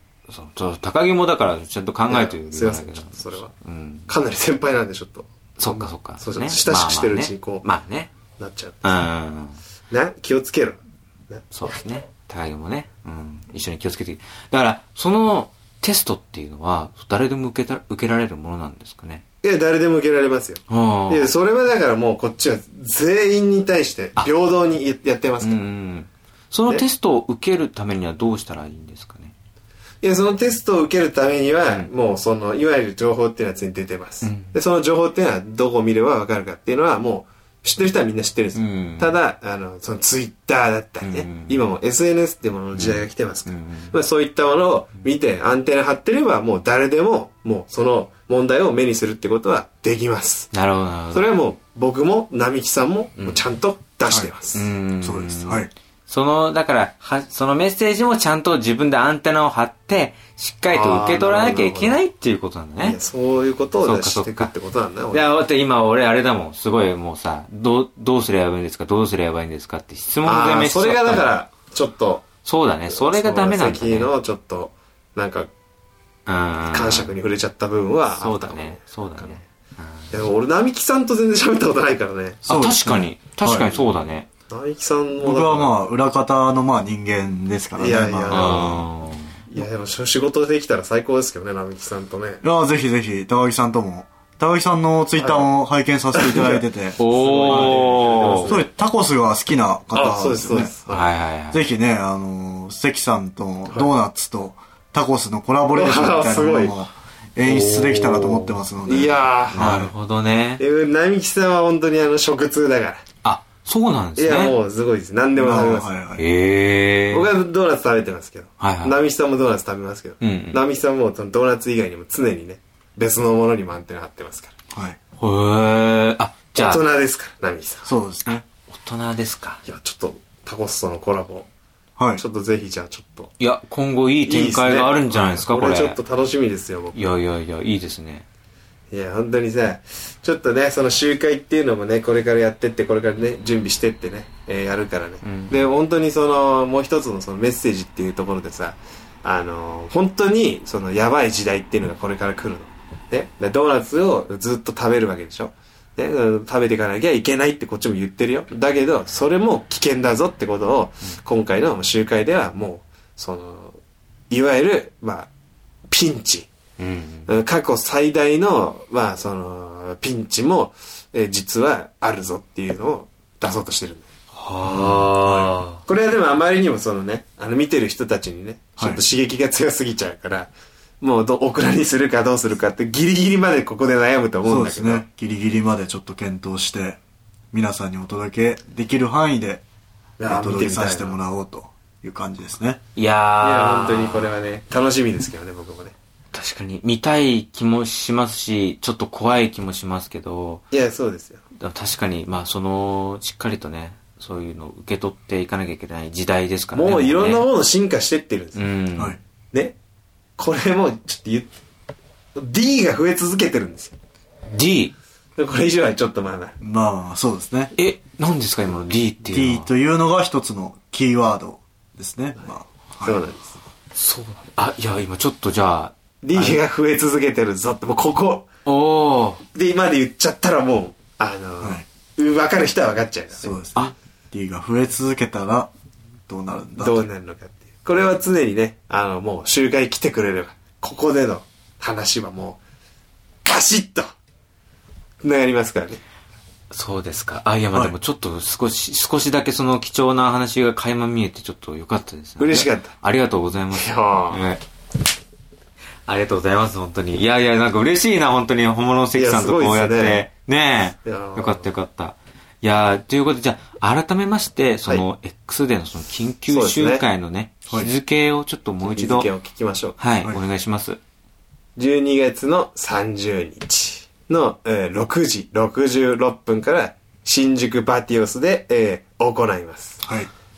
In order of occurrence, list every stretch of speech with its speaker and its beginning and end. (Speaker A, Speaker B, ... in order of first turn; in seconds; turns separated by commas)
Speaker A: 0.3-4.1, Speaker B: 2.1-3.5, Speaker B: 4.1-7.6, Speaker A: 5.6-8.1, Speaker B: 8.4-8.8, Speaker A: 8.8-9.6, Speaker B: 9.9-11.4, Speaker A: 11.5-19.2, Speaker B: 19.4-25.6, Speaker A: 20.7-21.3, Speaker A: 25.4-29.3, Speaker B: 30.0-50.5, Speaker A: 34.2-34.6, Speaker A: 38.5-39.2, Speaker A: 41.0-41.6, Speaker A: 42.7-43.9, Speaker A: 50.5-51.3, Speaker B: 51.1-54.7, Speaker A: 53.2-53.4, Speaker A: 54.5-63.0, Speaker C: 55.0-55.7, Speaker B: 60.7-62.0, Speaker B: 62.8-65.3, Speaker A: 63.8-64.5, Speaker A: 65.1-71.3, Speaker B: 70.2-72.3, Speaker A: 72.5-74.1, Speaker B: 72.9-75.5, Speaker A: 76.3-77.1, Speaker B: 76.7-79.4, Speaker A: 78.2-80.2, Speaker B: 80.1-82.4, Speaker A: 82.5-84.3, Speaker C: 82.5-83.9, Speaker B: 84.5-85.8, Speaker C: 85.2-88.8, Speaker B: 87.8-88.9, Speaker A: 88.3-89.4, Speaker B: 89.5-92.4, Speaker C: 92.4-97.8, Speaker B: 95.2-95.5, Speaker B: 96.2-98.7, Speaker A: 97.0-98.5, Speaker C: 98.4-100.7, Speaker B: 99.9-101.1, Speaker A: 100.9-101.6, Speaker C: 101.5-109.9, Speaker B: 105.7-106.8, Speaker B: 107.5-109.8, Speaker A: 109.5-110.6, Speaker B: 110.6-113.0, Speaker A: 113.2-114.6, Speaker B: 114.2-115.9, Speaker C: 115.4-116.2, Speaker A: 116.2-117.3, Speaker B: 117.1-124.5, Speaker A: 118.6-119.0, Speaker A: 120.2-120.6, Speaker C: 124.7-125.0, Speaker A: 125.2-126.8, Speaker B: 126.5-127.9, Speaker C: 127.8-128.4, Speaker A: 128.3-129.6, Speaker B: 129.7-131.5, Speaker C: 132.0-132.2, Speaker B: 132.2-133.3, Speaker A: 133.4-136.0, Speaker B: 134.3-137.0, Speaker A: 136.9-138.3, Speaker B: 138.9-163.8, Speaker A: 145.2-145.6, Speaker B: 164.3-165.3, Speaker B: 165.9-166.5, Speaker A: 166.8-167.3, Speaker B: 167.3-174.1, Speaker A: 174.3-175.8, Speaker C: 174.6-175.6, Speaker B: 175.9-185.1, Speaker C: 184.4-187.0, Speaker C: 187.5-189.6, Speaker B: 190.2-191.2, Speaker C: 190.3-192.8, Speaker A: 193.0-194.3, Speaker B: 193.4-195.9, Speaker A: 196.3-200.6, Speaker B: 200.7-201.4, Speaker A: 201.6-207.4, Speaker B: 206.7-208.7, Speaker A: 208.6-209.2, Speaker B: 210.4-211.5, Speaker B: 212.4-213.9, Speaker A: 214.5-214.9, Speaker B: 215.4-216.6, Speaker C: 216.6-217.7, Speaker A: 217.8-219.7, Speaker C: 219.3-223.2, Speaker B: 223.0-223.6, Speaker A: 223.9-226.6, Speaker B: 226.2-228.5, Speaker A: 228.7-229.4, Speaker B: 229.5-233.7, Speaker C: 233.4-235.7, Speaker C: 236.3-237.1, Speaker B: 236.8-242.6, Speaker B: 243.5-244.1, Speaker B: 245.2-246.0, Speaker A: 246.7-254.6, Speaker B: 252.4-253.0, Speaker B: 253.7-254.4, Speaker A: 256.1-269.3, Speaker B: 259.1-260.2, Speaker B: 261.1-261.7, Speaker B: 266.5-267.0, Speaker B: 268.9-270.0, Speaker A: 270.0-271.0, Speaker B: 271.8-280.0, Speaker C: 280.0-280.3